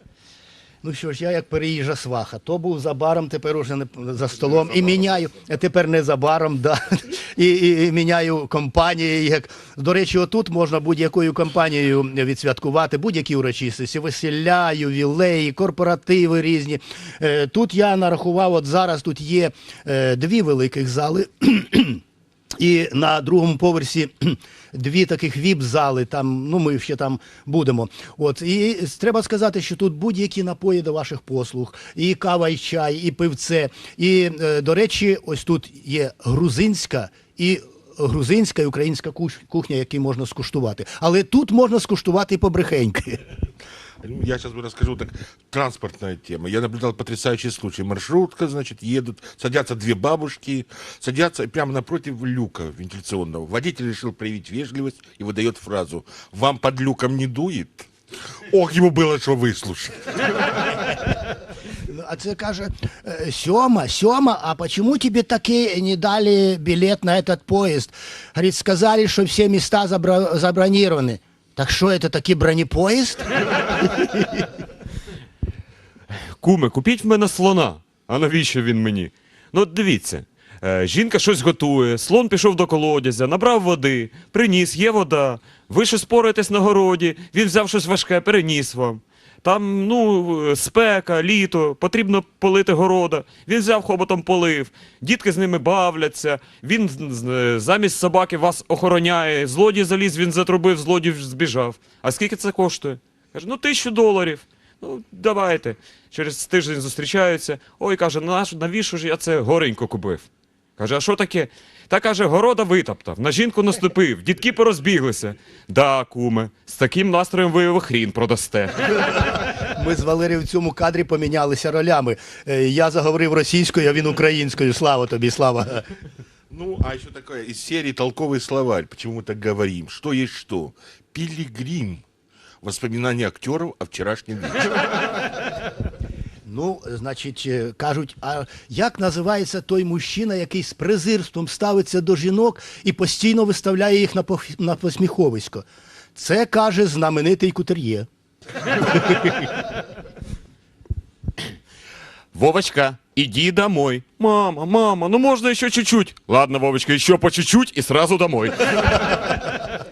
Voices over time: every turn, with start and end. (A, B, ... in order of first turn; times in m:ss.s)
0:00.8-0:22.0 A
0:22.6-0:43.2 A
0:44.0-1:01.0 B
1:01.8-1:14.4 A
1:16.1-1:58.7 C
1:59.3-2:05.9 A
2:06.5-2:12.0 B
2:12.6-2:14.8 B
2:16.4-2:28.1 A
2:29.0-2:29.4 A
2:32.3-2:39.4 C